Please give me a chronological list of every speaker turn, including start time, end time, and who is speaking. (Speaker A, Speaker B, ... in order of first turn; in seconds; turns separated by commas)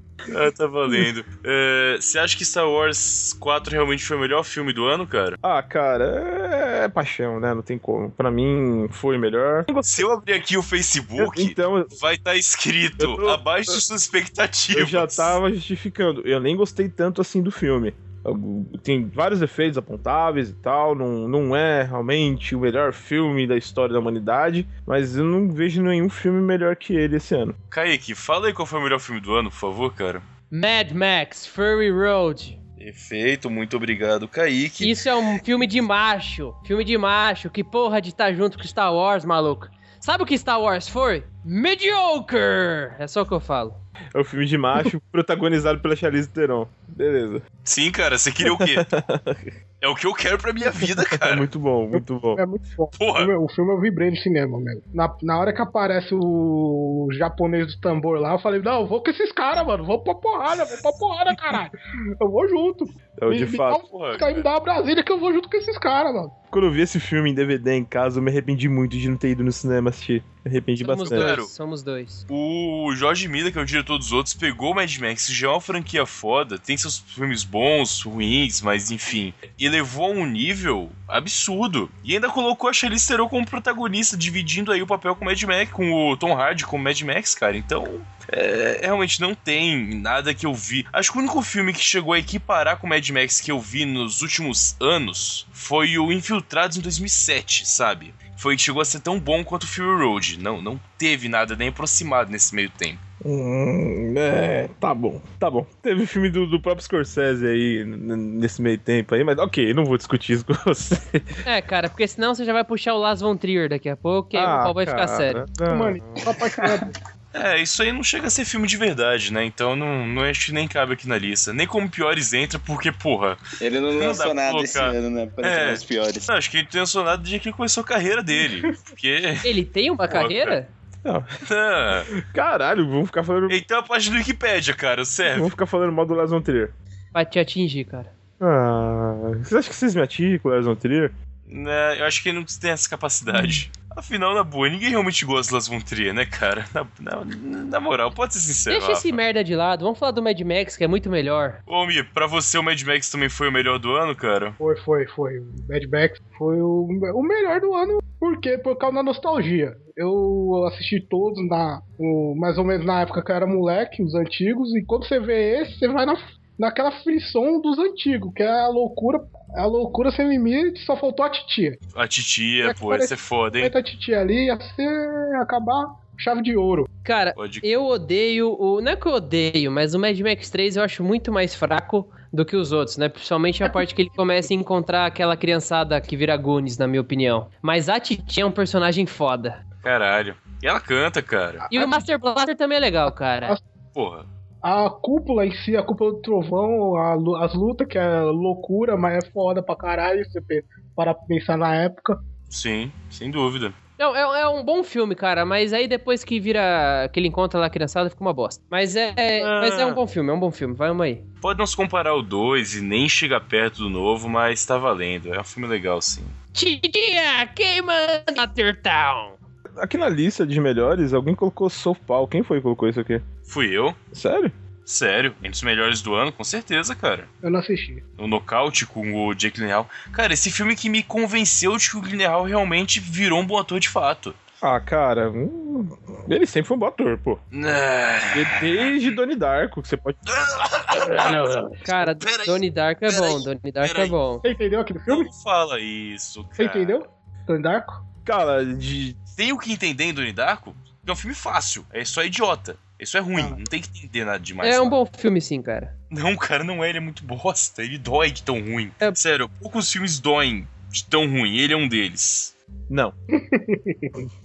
Speaker A: 0.3-5.4, Speaker B: 5.4-10.1, Speaker A: 9.8-15.4, Speaker B: 11.2-11.9, Speaker B: 13.0-13.4, Speaker B: 14.7-27.6, Speaker A: 27.7-30.2, Speaker C: 30.5-32.6, Speaker A: 32.8-35.1, Speaker C: 34.8-43.8, Speaker B: 44.1-47.4, Speaker A: 47.6-48.9, Speaker B: 48.4-49.5, Speaker A: 49.8-51.5, Speaker B: 50.8-52.4, Speaker D: 51.9-66.3, Speaker A: 53.0-53.3, Speaker B: 63.2-63.8, Speaker A: 63.9-64.5, Speaker B: 66.5-71.3, Speaker C: 70.8-72.2, Speaker A: 71.1-71.5, Speaker A: 72.3-103.0, Speaker B: 103.2-111.3, Speaker C: 111.4-115.4, Speaker B: 114.3-116.2, Speaker D: 115.7-116.9, Speaker A: 117.3-123.4, Speaker E: 123.6-126.3, Speaker A: 123.9-129.5, Speaker C: 129.4-130.7, Speaker A: 130.1-130.6, Speaker B: 131.0-131.3, Speaker A: 131.4-132.1, Speaker B: 132.1-133.6, Speaker A: 133.5-135.5, Speaker B: 135.2-136.7, Speaker C: 137.1-138.1, Speaker B: 138.4-141.1, Speaker A: 141.5-149.2, Speaker B: 143.3-143.6, Speaker C: 148.7-151.6, Speaker A: 151.7-154.6, Speaker D: 154.6-171.8, Speaker A: 171.9-173.7, Speaker D: 172.6-176.9, Speaker C: 177.0-189.6, Speaker A: 177.3-177.6, Speaker A: 189.8-191.7, Speaker D: 191.7-192.0, Speaker C: 191.7-193.6, Speaker A: 193.9-194.2, Speaker D: 194.6-202.2, Speaker A: 202.5-203.7, Speaker C: 204.0-211.2, Speaker A: 209.4-210.0, Speaker A: 211.4-216.3, Speaker C: 216.5-219.3, Speaker B: 219.8-223.2, Speaker A: 223.5-224.0, Speaker B: 224.1-224.5, Speaker A: 224.8-227.3, Speaker D: 227.4-228.0, Speaker A: 228.2-234.4, Speaker B: 234.6-237.4, Speaker A: 237.5-238.9, Speaker B: 238.3-240.2, Speaker A: 240.3-244.2, Speaker D: 241.2-241.8, Speaker C: 241.8-244.4, Speaker D: 244.4-245.3, Speaker A: 245.1-247.0, Speaker D: 246.6-248.0, Speaker B: 248.2-249.2, Speaker A: 249.3-254.9, Speaker C: 254.6-255.9, Speaker A: 256.1-262.5, Speaker B: 262.9-263.1, Speaker D: 263.3-264.2